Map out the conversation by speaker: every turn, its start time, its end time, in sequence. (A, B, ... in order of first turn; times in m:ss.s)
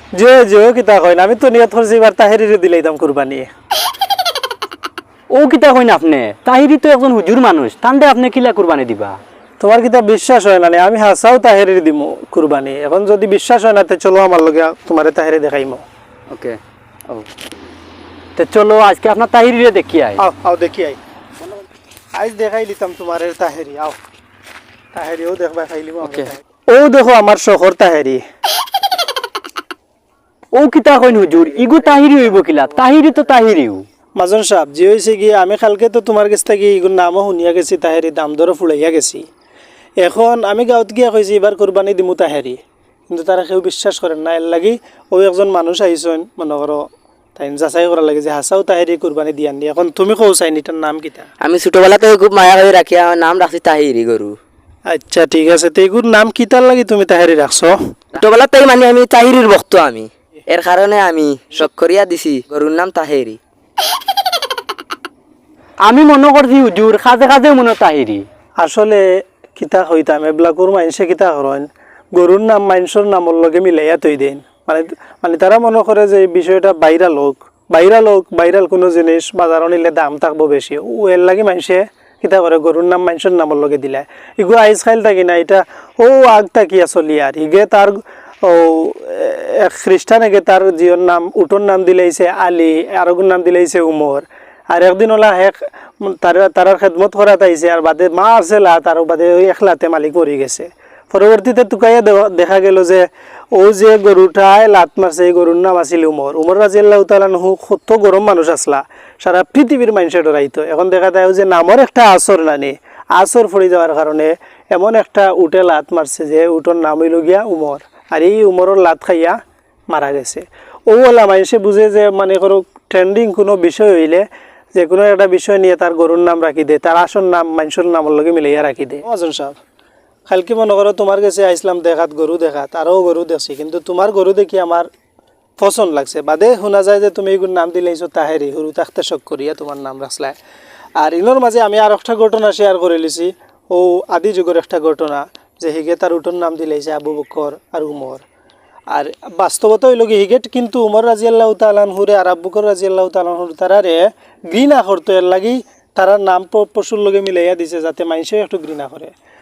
0:00.1-0:03.5 A
0:05.3-0:09.2 B
0:09.6-0:15.8 A
0:16.3-0:17.3 B
0:18.4-0:20.2 B
0:20.2-0:21.0 A
0:22.1-0:24.0 A
0:24.9-0:28.2 A
0:26.0-0:26.3 B
0:30.5-0:33.8 B
0:34.2-0:39.2 A
0:40.0-0:46.8 A
0:47.4-0:51.3 A
0:51.4-0:54.4 C
0:54.9-0:57.8 A
0:58.1-1:03.4 C
1:05.8-1:08.2 B
1:08.6-1:09.0 A
1:09.6-1:59.4 A
1:59.9-2:09.6 A
2:10.3-2:14.9 A
2:15.6-2:20.4 A
2:21.0-2:28.2 A
2:28.9-2:39.1 A